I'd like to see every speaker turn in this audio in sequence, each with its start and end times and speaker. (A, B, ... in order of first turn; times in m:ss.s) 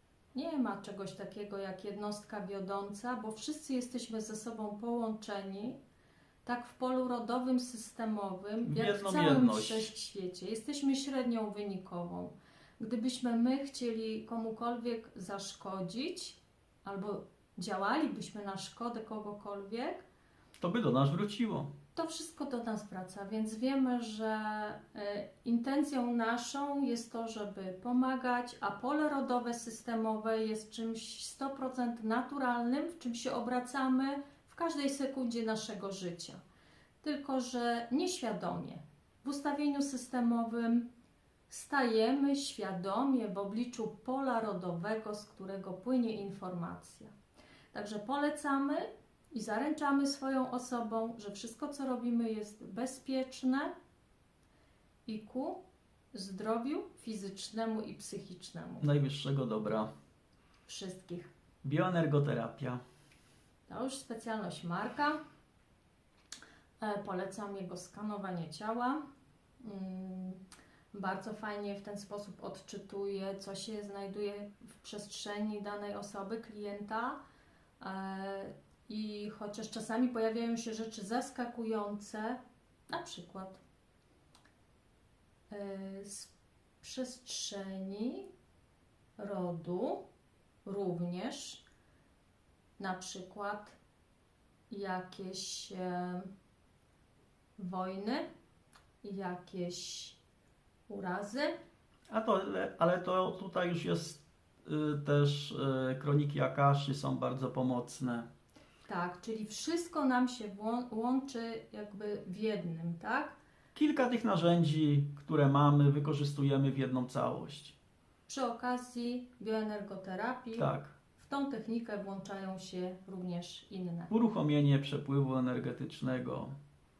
0:00.3-0:05.8 A
0:06.4-0:20.0 A
0:08.6-0:09.9 B
0:20.6-0:21.7 B
0:21.9-0:36.4 A
0:37.0-0:40.9 A
0:41.5-0:47.1 A
0:47.7-0:53.7 A
0:55.0-0:55.6 A
0:56.1-0:58.9 A
0:58.8-0:59.9 B
1:00.6-1:01.3 A
1:01.6-1:02.8 B
1:03.7-1:05.2 A
1:06.8-1:09.0 A
1:09.6-1:10.4 A
1:10.9-1:17.2 A
1:17.8-1:23.6 A
1:25.5-1:28.3 A
1:29.2-1:30.0 A
1:30.6-1:31.6 A
1:32.8-1:33.8 A
1:34.7-1:36.2 A
1:37.6-1:38.2 A
1:39.0-1:40.2 A
1:40.9-1:41.5 A
1:42.1-1:48.3 B
1:48.9-1:53.4 A
1:53.7-1:57.8 B
1:58.3-2:04.1 A
2:00.6-2:00.9 B
2:04.1-2:06.5 B